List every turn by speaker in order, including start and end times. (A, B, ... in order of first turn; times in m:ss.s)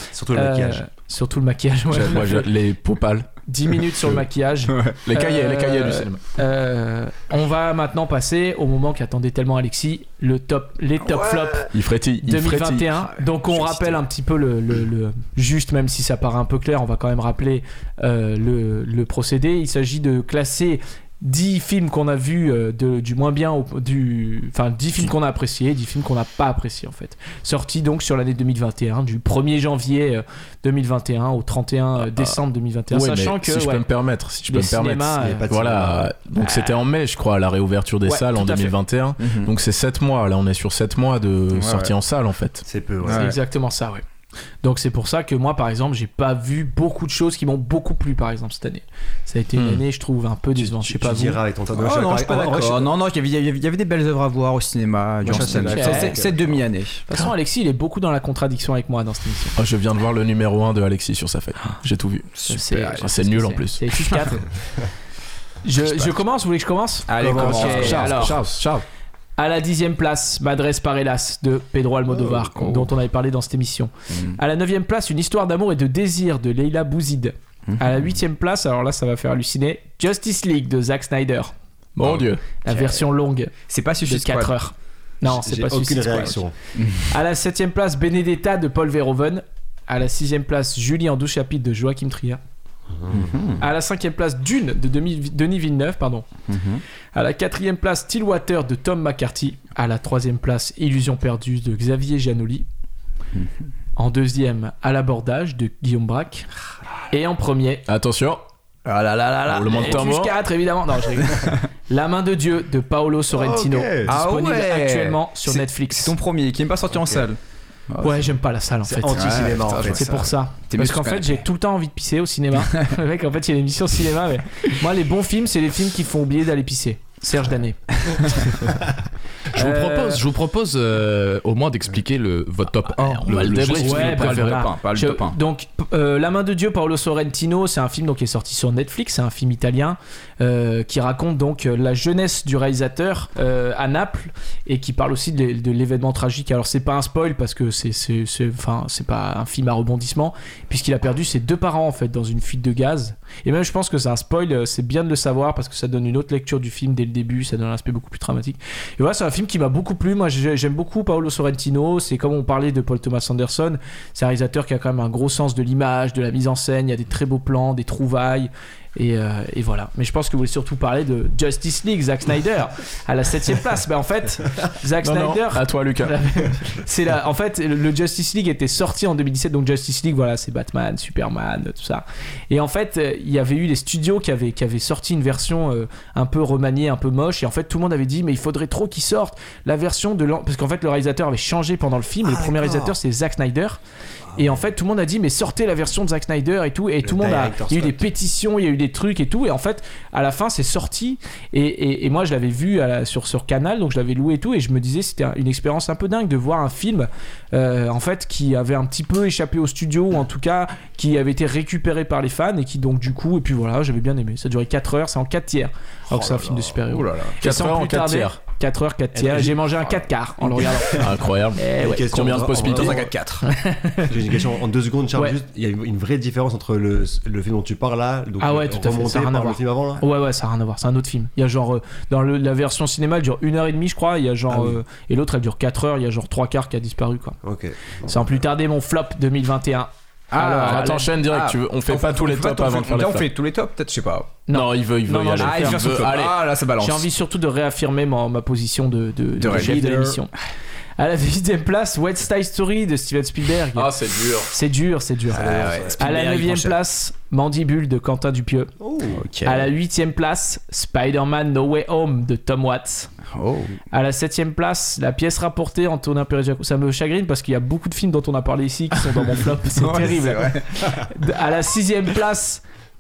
0:00.1-0:00.8 A
0:00.3-0:02.5 B
0:01.9-0:03.3 C
0:03.5-0:11.7 B
0:05.0-0:06.2 C
0:11.0-0:11.6 D
0:11.7-0:13.0 C
0:12.2-0:33.9 B
0:13.0-0:14.0 D
0:32.0-0:32.4 C
0:32.9-0:42.6 C
0:34.5-0:35.5 B
0:35.2-0:36.1 A
0:36.4-0:36.7 D
0:38.0-0:38.8 B
0:39.2-0:39.5 D
0:41.6-0:41.9 D
0:42.6-0:43.4 A
0:43.0-0:43.4 D
0:43.1-0:44.0 B
0:44.6-0:51.4 B
0:49.6-0:49.8 C
0:50.6-0:52.9 A
0:51.7-0:57.0 D
0:55.2-0:56.6 A
0:55.7-0:56.2 B
0:57.1-0:59.6 B
0:59.6-1:04.3 C
1:02.4-1:03.1 D
1:02.4-1:04.4 B
1:05.6-1:08.4 B
1:05.8-1:06.1 D
1:07.1-1:08.4 D
1:07.2-1:08.1 A
1:07.2-1:08.6 E
1:09.4-1:21.5 B
1:12.3-1:12.9 D
1:14.1-1:14.4 D
1:17.7-1:18.1 D
1:22.0-1:22.4 C
1:22.6-1:23.5 B
1:22.7-1:23.0 D
1:23.7-1:24.5 D
1:24.0-1:26.4 B
1:25.2-1:26.5 A
1:26.8-1:27.0 D
1:27.1-1:32.4 B
1:32.9-1:33.4 A
1:33.1-1:33.7 D
1:33.6-1:36.3 B
1:36.5-1:36.8 D
1:37.1-1:42.6 B
1:44.0-1:46.5 B
1:47.1-1:47.9 B
1:47.9-1:48.4 C
1:48.9-1:50.0 D
1:49.5-1:50.4 C
1:49.7-1:56.2 B
1:53.3-1:54.1 A
1:54.0-1:57.4 D
1:57.9-1:58.3 D
1:58.0-2:08.5 B
1:58.8-2:00.3 A
1:59.1-2:01.4 D
2:02.6-2:02.9 D
2:09.5-2:14.6 E
2:09.5-2:10.2 B
2:13.0-2:14.4 C
2:13.6-3:13.8 B
2:13.7-2:15.4 D
2:55.0-2:56.6 C
3:12.2-3:13.0 A
3:14.3-3:14.6 A
3:14.4-3:42.6 B
3:17.0-3:18.1 A
3:36.1-3:36.8 A
3:37.0-3:37.3 E
3:37.4-3:38.4 C
3:39.2-3:41.1 A
3:40.9-3:43.1 C
3:41.7-3:43.1 A
3:42.7-3:43.5 D
3:43.4-3:44.1 B
3:44.0-3:50.0 A
3:48.4-3:57.4 B
3:54.5-3:54.8 A
3:57.4-3:58.4 A
3:58.0-4:01.1 B
4:00.3-4:04.4 D
4:00.6-4:03.3 C
4:04.5-4:05.8 B
4:04.5-4:06.4 C
4:05.4-4:07.1 D
4:06.8-4:10.3 B
4:09.4-4:10.3 D
4:11.0-4:13.9 B
4:13.8-4:14.6 C
4:14.5-4:18.7 B
4:15.3-4:16.8 D
4:15.3-4:16.0 A
4:18.8-4:19.2 A
4:19.1-4:19.7 D
4:19.4-4:23.1 B
4:23.3-4:23.8 D
4:23.9-4:32.6 B
4:29.8-4:31.1 D